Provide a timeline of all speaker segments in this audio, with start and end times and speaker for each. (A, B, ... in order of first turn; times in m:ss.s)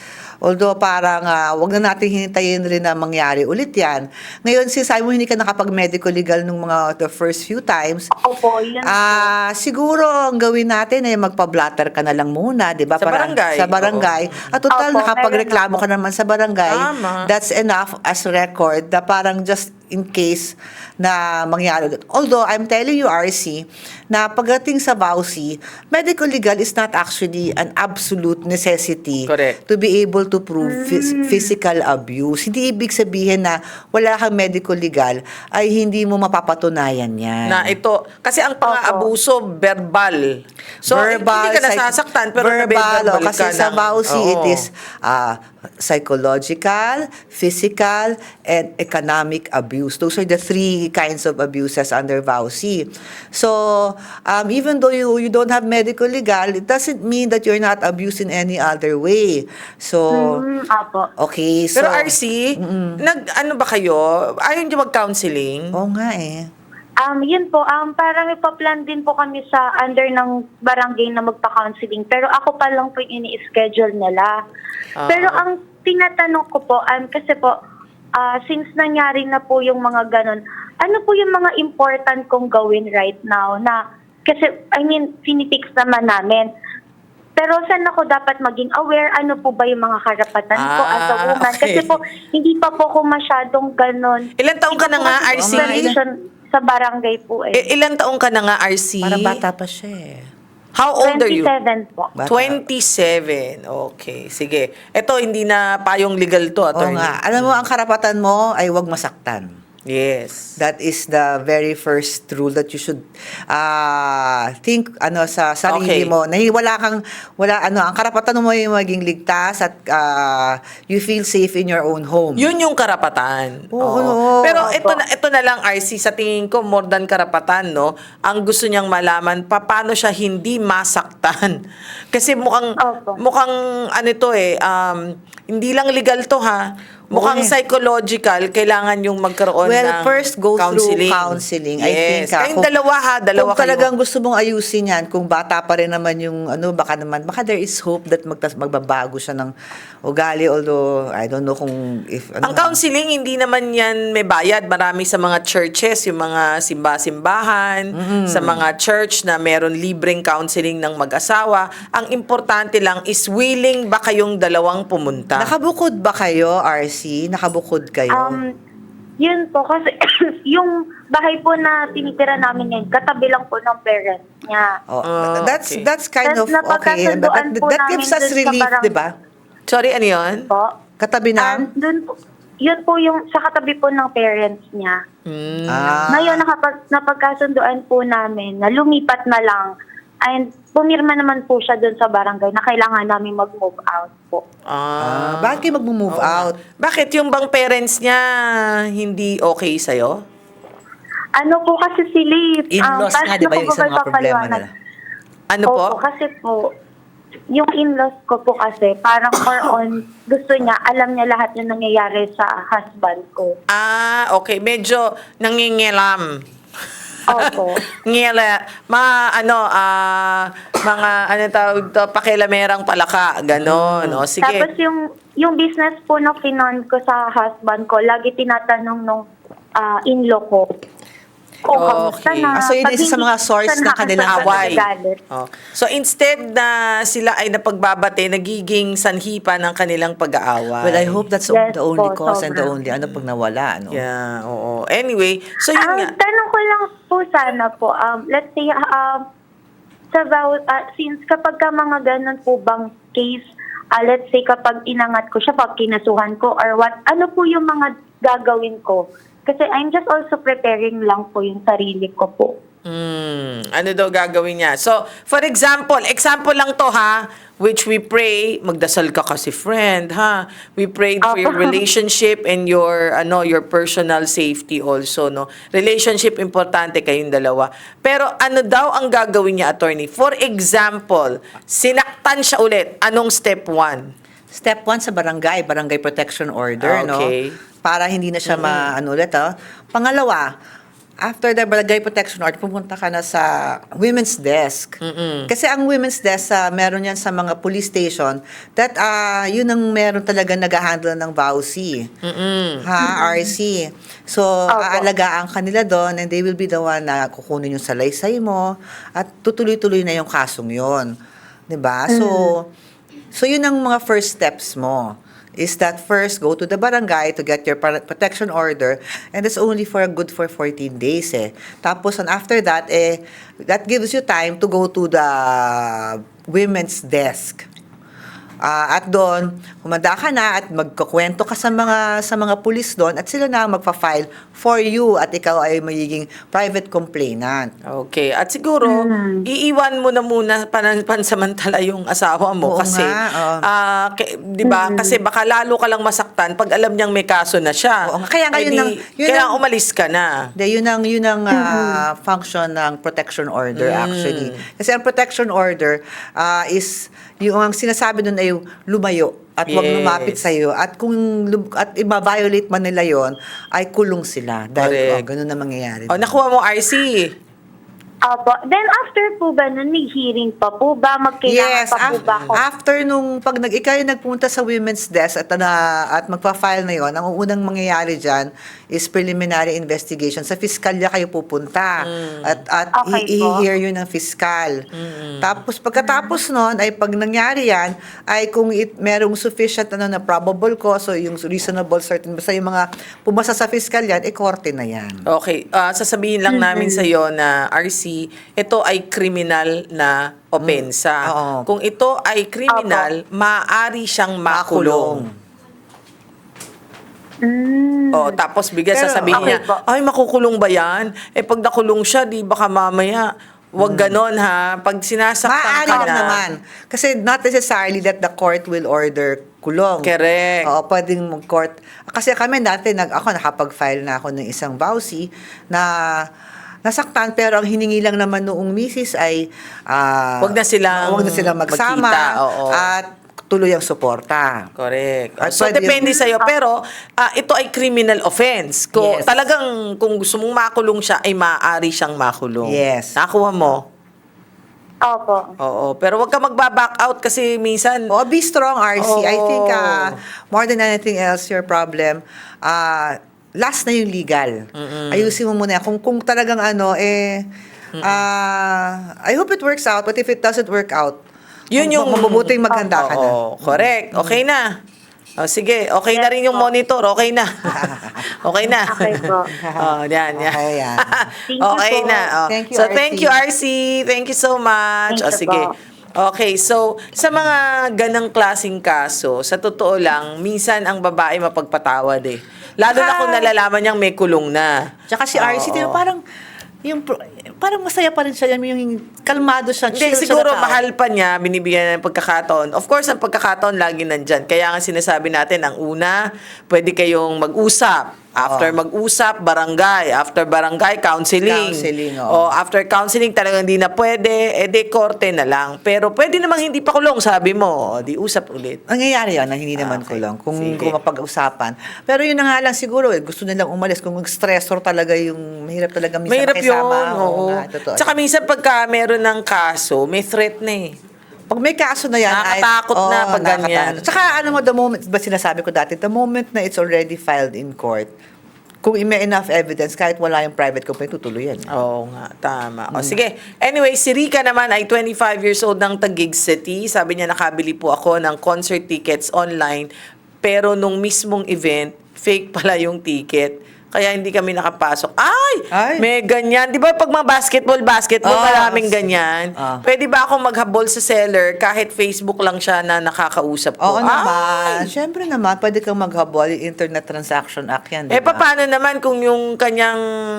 0:00.4-0:08.1 A
0:08.1-0:09.3 B
0:08.8-0:37.8 A
0:13.0-0:14.6 C
0:14.7-0:15.8 B
0:16.7-0:17.3 C
0:29.3-0:29.6 C
0:30.6-0:31.5 B
0:37.5-0:44.7 C
0:38.7-0:39.1 B
0:40.9-1:00.4 A
1:00.1-1:01.1 B
1:01.2-1:03.0 A
1:01.8-1:05.8 C
1:05.7-1:06.5 A
1:07.0-1:14.4 B
1:15.0-1:15.4 C
1:15.1-1:17.6 B
1:18.2-1:26.5 B
1:27.4-1:37.7 B
1:30.6-1:31.9 C
1:34.4-1:35.9 C
1:35.4-1:36.0 A
1:37.5-1:39.4 C
1:39.0-1:40.3 A
1:40.8-1:41.5 C
1:41.0-1:42.1 B
1:42.2-1:42.6 A
1:42.3-1:47.6 C
1:46.8-1:49.5 A
1:49.9-1:50.6 C
1:50.6-2:02.5 A
1:55.7-1:56.1 C
2:02.4-2:11.6 C
2:03.7-2:05.0 A
2:12.1-2:23.9 C
2:12.8-2:13.2 B
2:17.1-2:17.6 A
2:19.6-2:22.7 A
2:23.4-2:29.5 A
2:30.0-2:32.8 A
2:32.4-2:45.5 C
2:38.0-2:38.6 A
2:45.4-2:48.4 A
2:48.1-2:48.5 B
2:49.2-2:54.8 B
2:54.9-2:59.1 A
2:55.0-2:55.9 C
2:56.2-2:58.9 B
2:59.7-3:00.5 C
3:01.0-3:01.7 A
3:01.4-3:05.0 B
3:05.3-3:06.1 C
3:05.7-3:06.4 A
3:06.1-3:14.4 B
3:14.7-3:20.2 C
3:15.0-3:16.6 A
3:21.4-3:24.6 B
3:22.7-3:24.7 A
3:25.5-3:26.0 C
3:25.7-3:26.7 B
3:27.5-3:33.6 B
3:33.7-3:36.4 C
3:37.3-3:37.8 B
3:37.4-3:44.7 C
3:43.6-3:44.2 A
3:44.4-3:49.3 B
3:49.8-3:50.7 B
3:51.7-3:55.2 B
3:51.7-3:52.6 C
3:52.5-3:54.8 A
3:54.3-4:01.2 C
4:00.8-4:04.0 A
4:01.5-4:02.7 B
4:03.9-4:06.1 C
4:05.7-4:09.2 B
4:10.1-4:22.6 B
4:22.9-4:44.1 C
4:31.2-4:31.8 B
4:44.5-4:50.5 A
4:46.8-4:47.6 C
4:48.5-4:48.9 C
4:51.2-4:55.0 A
4:55.0-4:55.5 C
4:55.5-5:02.1 A
5:02.2-5:02.9 C
5:02.8-5:11.1 A
5:03.0-5:03.5 B
5:04.7-5:05.1 B
5:11.7-5:12.7 A
5:12.1-5:12.5 B
5:13.3-5:27.7 A
5:28.6-5:37.7 A
5:37.9-5:50.5 C
5:38.8-5:39.5 B
5:42.6-5:43.7 A
5:44.6-5:45.2 B
5:48.1-5:49.6 A
5:50.6-6:06.4 A
5:51.5-5:52.0 B
5:53.8-5:54.6 C
5:59.7-6:00.5 C
6:04.8-6:05.2 C
6:06.1-6:07.3 C
6:08.2-6:12.6 B
6:11.5-6:24.8 A
6:12.1-6:12.5 C
6:22.0-6:22.6 C
6:23.0-6:23.6 B
6:24.9-6:25.6 C
6:25.4-6:35.2 A
6:35.3-6:45.2 C
6:36.5-6:37.1 B
6:40.6-6:41.7 A
6:42.7-6:43.1 B
6:44.5-6:45.3 A
6:47.4-6:48.4 B
6:48.1-6:56.4 C
6:48.9-6:49.6 A
6:49.3-6:49.8 B
6:53.8-6:54.2 A
6:55.4-7:00.1 A
7:00.0-7:00.7 C
7:00.6-7:06.3 A
7:06.8-7:14.7 A
7:10.4-7:12.9 C
7:14.8-7:23.8 C
7:15.4-7:16.1 A
7:16.3-7:16.5 B
7:19.0-7:19.3 A
7:22.6-7:23.2 A
7:25.0-7:25.5 B
7:25.6-7:28.1 C
7:28.1-7:37.5 A
7:29.0-7:30.2 C
7:34.8-7:35.4 C
7:38.0-7:38.2 C
7:38.0-7:41.2 A
7:41.7-7:44.6 C
7:41.8-7:44.4 A
7:45.4-8:04.8 C
7:46.1-7:46.7 B
7:47.7-7:48.4 A
7:48.9-7:49.5 B
7:49.5-7:51.2 A
7:51.5-7:52.3 B
7:52.5-7:53.4 A
7:55.1-7:55.7 B
8:02.9-8:03.4 A
8:05.1-8:06.2 A
8:05.4-8:06.0 C
8:06.8-8:10.8 A
8:09.9-8:28.8 C
8:18.4-8:18.8 A
8:21.4-8:22.5 A
8:28.9-8:38.1 A
8:29.8-8:30.9 C
8:36.3-8:41.0 C
8:41.5-8:48.1 A
8:42.3-8:44.1 C
8:48.8-8:51.7 A
8:51.7-8:59.9 C
8:52.9-8:53.2 A
9:00.4-9:14.9 C
9:05.7-9:06.1 A
9:08.2-9:09.8 A
9:13.8-9:18.4 A
9:18.1-9:20.0 C